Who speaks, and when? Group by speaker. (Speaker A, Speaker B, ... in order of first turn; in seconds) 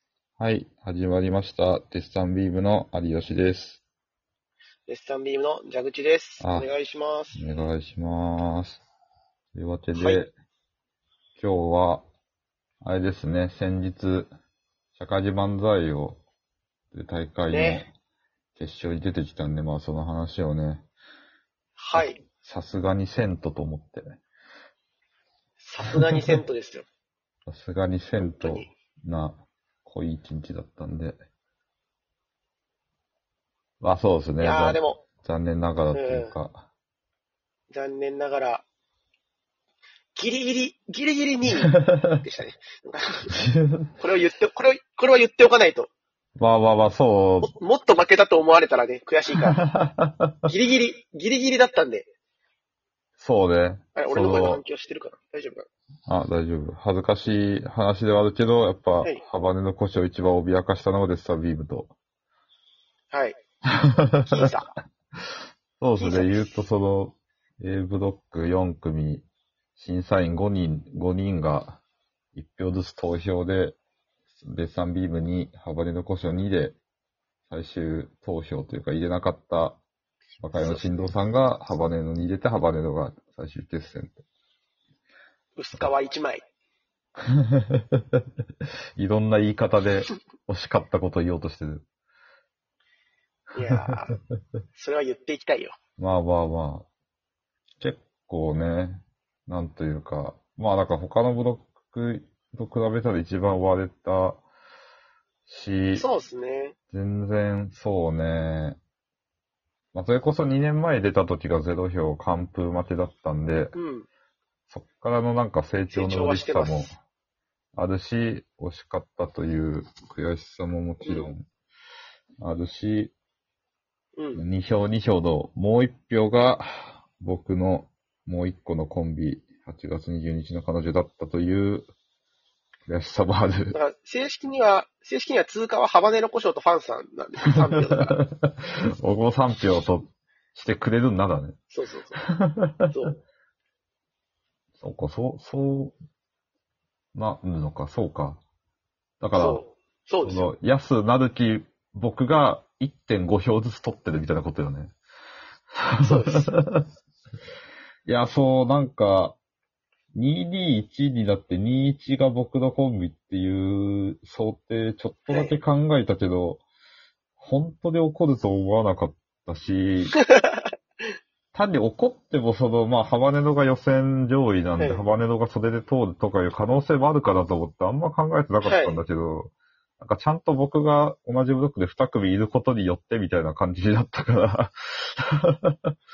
Speaker A: 0.4-3.8, 6.4-6.7, 7.3-8.8, 9.5-10.3, 11.4-12.1, 12.8-14.3, 14.9-16.2, 16.9-17.9, 18.6-20.9, 21.9-24.2, 27.4-31.2, 33.8-36.7, 41.7-42.2, 43.3-43.9, 46.4-47.5, 49.5-50.5, 53.2-54.6, 56.1-61.9, 63.7-64.5, 65.8-69.2, 69.8-71.8, 72.3-73.8, 74.3-76.8, 77.5-79.8, 80.4-84.2, 87.3-88.2, 89.0-91.8, 96.0-96.9, 97.8-104.4, 105.5-106.1, 106.9-108.8, 109.9-113.8, 114.7-117.0, 117.7-121.5, 122.4-123.1, 124.3-131.9, 132.9-133.8, 138.1-141.6, 142.3-142.9, 144.8-146.0, 147.1-148.4, 149.2-149.6, 150.2-154.9, 155.8-156.8, 158.0-159.4, 160.1-166.6, 167.4-170.2, 171.5-185.9
Speaker B: 4.9-7.6, 9.9-10.2, 17.5-17.9, 21.8-22.2, 25.6-26.9, 28.2-28.7, 34.4-35.0, 35.9-36.3, 37.7-38.6, 40.1-43.3, 44.0-45.9, 47.4-49.6, 50.5-52.1, 53.9-55.6, 63.1-63.4, 64.2-64.7, 66.0-66.5, 80.5-81.1, 85.5-86.4, 93.5-94.2, 94.7-95.8, 105.9-106.8, 113.7-114.1, 115.9-116.9, 121.0-121.3, 124.2-124.4, 133.7-138.2, 141.7-142.2, 142.9-143.2, 149.3-150.5, 156.0-156.5, 165.3-165.6, 170.1-170.7, 174.8-175.1, 178.6-179.0